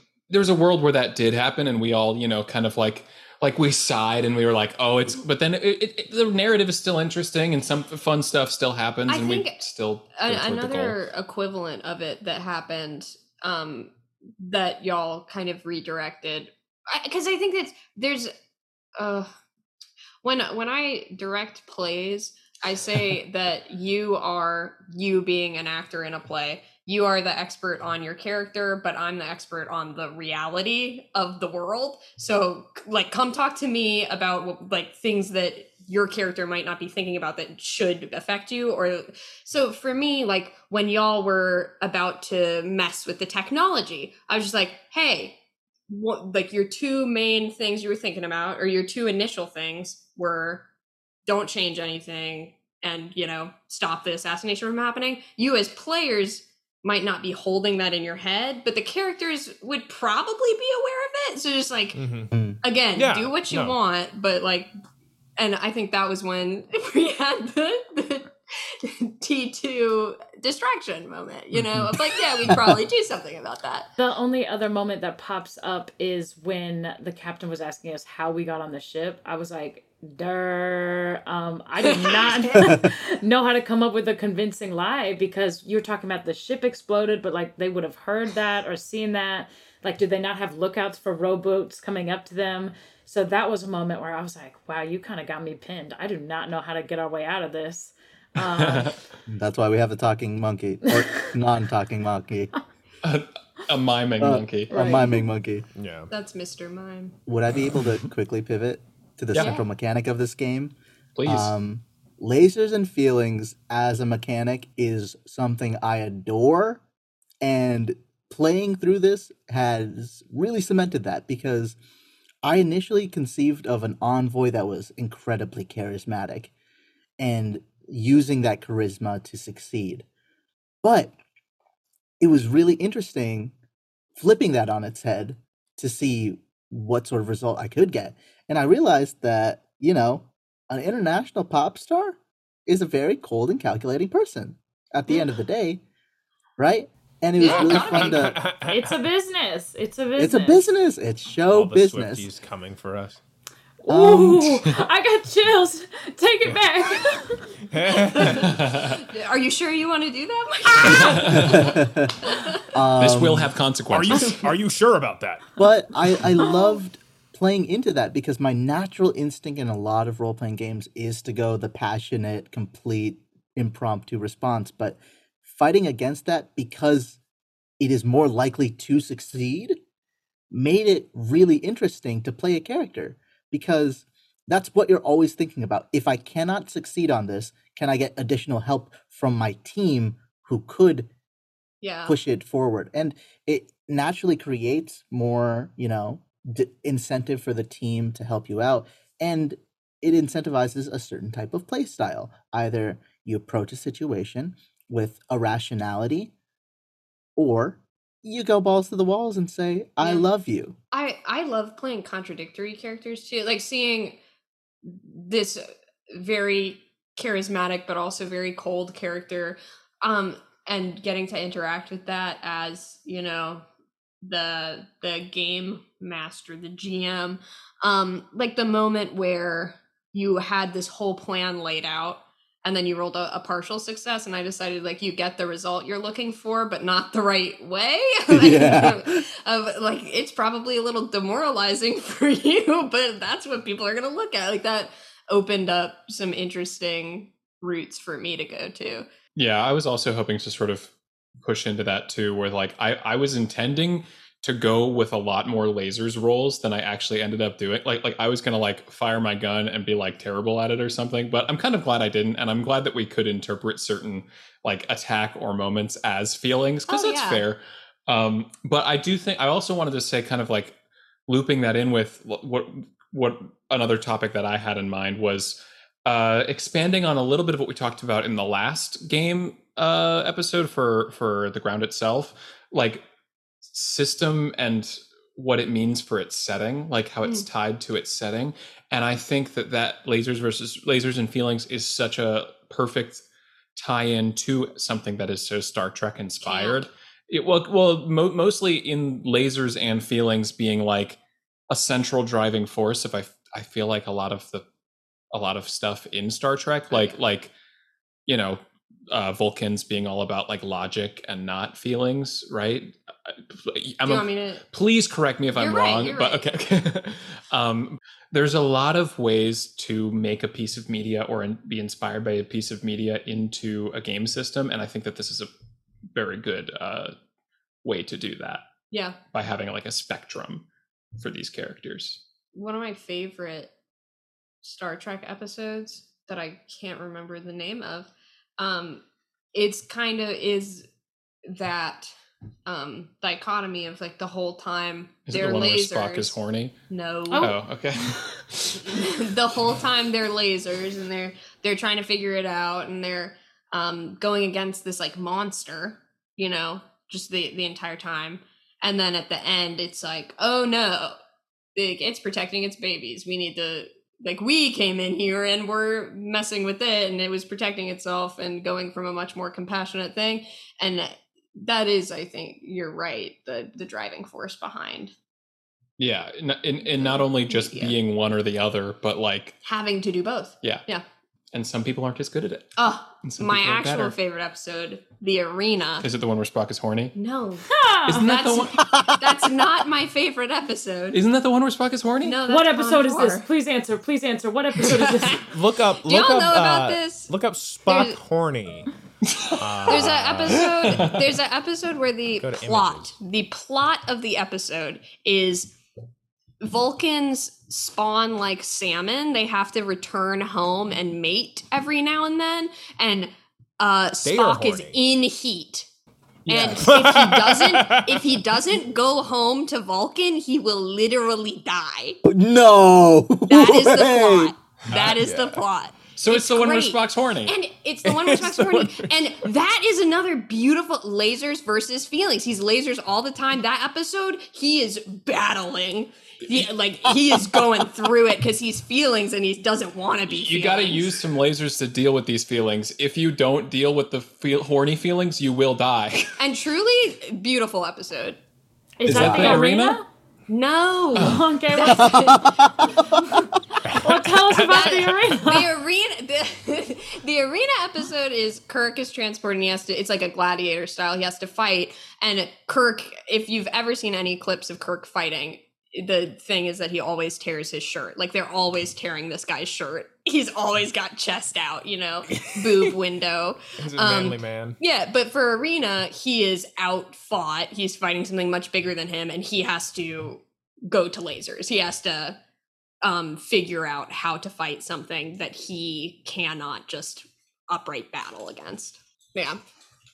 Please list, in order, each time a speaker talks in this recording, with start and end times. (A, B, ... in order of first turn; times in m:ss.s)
0:00.3-0:11.0 A
0:09.1-0:18.3 B
0:19.0-0:19.3 B
0:20.2-0:45.4 B
0:45.9-0:50.6 B
0:51.2-1:02.0 B
1:01.9-1:02.4 C
1:02.3-1:02.6 D
1:02.6-1:04.7 B
1:02.9-1:03.8 C
1:05.4-1:13.9 B
1:12.5-1:12.8 D
1:14.0-1:39.0 E
1:21.9-1:22.7 B
1:38.4-1:39.0 A
1:39.3-1:42.5 D
1:40.9-1:41.3 E
1:43.0-1:44.7 A
1:44.2-1:45.6 D
1:44.7-1:45.2 E
1:45.7-1:46.1 C
1:46.1-1:47.2 B
1:47.2-1:50.7 D
1:49.3-1:49.7 B
1:51.2-1:51.5 A
1:51.2-1:56.8 D
1:57.4-2:01.8 D
2:02.4-2:06.5 D
2:07.2-2:10.0 D
2:10.8-2:11.1 D
2:12.2-2:13.5 D
2:14.2-2:25.8 D
2:26.6-2:28.4 D
2:27.4-2:28.3 B
2:27.4-2:29.0 C
2:28.6-2:30.6 E
2:30.2-2:32.3 D
2:31.5-2:33.2 C
2:33.8-2:38.4 E
2:33.9-2:34.6 D
2:37.7-2:38.5 C
2:38.2-2:42.6 B
2:38.5-2:39.0 A
2:40.8-2:41.7 A
2:41.3-2:43.5 D
2:43.0-2:44.4 A
2:43.9-2:45.5 C
2:45.6-2:57.2 D
2:57.8-2:59.8 D
3:00.5-3:11.1 D
3:11.8-3:12.1 B
3:12.0-3:26.3 D
3:27.4-3:30.8 D
3:30.0-3:30.3 B
3:30.9-3:34.2 B
3:34.8-3:43.6 B
3:44.2-4:09.0 B
3:58.3-3:59.2 D
4:09.4-4:30.8 A
4:26.9-4:27.4 B
4:31.3-4:43.0 A
4:43.7-4:53.2 A
4:53.8-5:01.2 A
4:56.4-4:56.9 B
5:01.7-5:04.6 A
5:05.3-5:07.5 A
5:06.9-5:07.2 B
5:08.3-5:25.5 A
5:14.0-5:14.6 B
5:15.6-5:16.4 B
5:26.1-5:27.1 A
5:27.8-5:28.6 A
5:28.9-5:29.2 B
5:29.3-5:30.6 A
5:31.2-5:32.2 A
5:32.5-5:33.7 B
5:34.6-5:39.0 B
5:39.5-5:40.8 B
5:41.4-5:42.1 B
5:42.6-5:46.4 B
5:45.3-5:46.8 A
5:46.9-5:47.5 B
5:47.3-5:47.6 E
5:47.4-5:49.0 A
5:48.8-6:01.1 B
6:01.7-6:15.1 B
6:16.0-6:19.6 A
6:16.8-6:18.0 B
6:19.6-6:21.0 B
6:21.5-6:24.1 A
6:22.8-6:26.0 B
6:26.0-6:27.2 A
6:27.1-6:27.6 B
6:27.7-6:28.2 E
6:28.1-6:28.9 A
6:28.2-6:31.2 B
6:28.8-6:29.2 D
6:31.1-6:32.4 A
6:32.2-6:33.5 B
6:32.5-6:35.4 E
6:34.8-6:37.3 B
6:35.4-6:38.9 C
6:37.8-6:38.2 B
6:39.3-6:41.2 A
6:39.6-6:40.9 C
6:39.9-6:45.7 B
6:42.4-6:43.1 C
6:46.6-6:55.9 B
6:54.2-6:55.0 C
6:56.4-6:56.8 A
6:56.5-6:56.8 D
6:56.5-7:02.2 B
6:56.8-6:58.3 C
7:02.2-7:04.5 D
7:03.5-7:21.2 B
7:04.9-7:05.6 C
7:06.2-7:07.6 A
7:08.0-7:09.1 C
7:20.3-7:26.3 A
7:26.4-7:28.4 B
7:29.0-7:30.0 E
7:29.0-7:30.0 A
7:29.1-7:29.6 D
7:30.5-7:33.5 B
7:31.1-7:32.3 E
7:31.2-7:31.4 A
7:31.8-7:33.5 D
7:33.8-7:35.4 C
7:34.0-7:35.7 E
7:34.7-8:02.4 B
7:52.3-7:52.9 C
7:53.8-7:54.8 C
8:03.0-8:09.6 B